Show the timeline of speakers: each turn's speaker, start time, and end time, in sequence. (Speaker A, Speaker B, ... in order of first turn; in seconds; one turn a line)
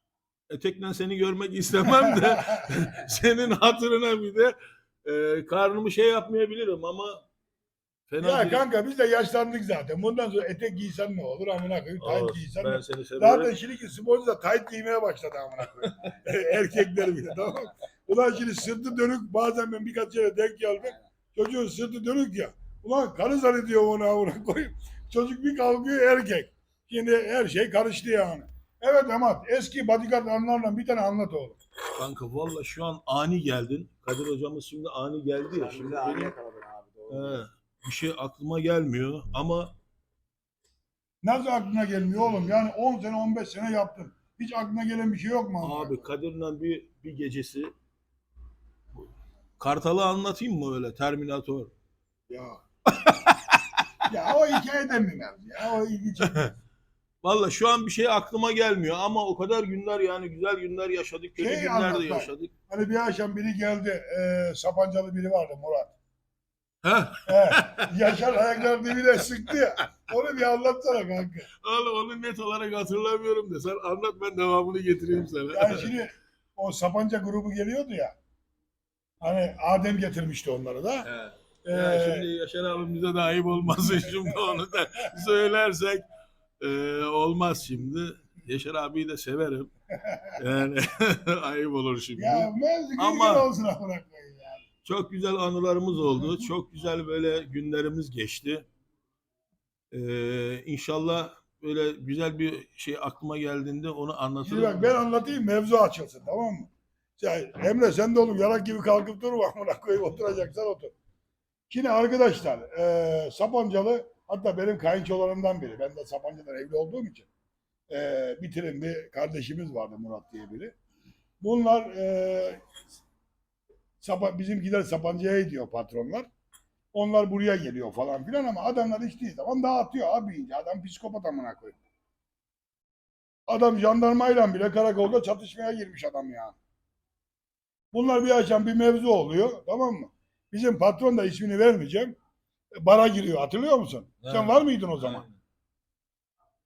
Speaker A: 0.5-7.2
Speaker B: 1.8-2.7
Speaker A: 8.1-8.7
Speaker B: 8.2-31.6
Speaker A: 12.0-13.5
Speaker A: 31.9-36.4
Speaker C: 35.5-37.5
Speaker A: 37.1-39.8
Speaker B: 41.2-46.1
Speaker A: 45.6-47.7
Speaker A: 49.6-51.7
Speaker B: 52.3-52.6
Speaker A: 53.0-53.6
Speaker B: 54.1-56.5
Speaker A: 57.2-62.5
Speaker B: 61.4-65.9
Speaker A: 66.8-68.0
Speaker B: 67.3-71.5
Speaker A: 71.6-75.9
Speaker B: 75.5-78.2
Speaker B: 79.2-81.1
Speaker A: 81.0-86.0
Speaker B: 81.7-82.3
Speaker B: 84.1-84.4
Speaker A: 86.6-89.7
Speaker B: 89.9-90.4
Speaker A: 90.4-93.5
Speaker B: 92.2-94.6
Speaker A: 94.8-98.7
Speaker B: 96.1-96.5
Speaker A: 99.9-105.0
Speaker B: 104.4-110.9
Speaker B: 111.7-117.3
Speaker B: 117.9-120.7
Speaker B: 121.4-122.6
Speaker B: 124.0-126.3
Speaker B: 126.9-131.8
Speaker B: 133.5-136.6
Speaker B: 137.9-142.2
Speaker B: 142.8-145.2
Speaker A: 144.2-145.4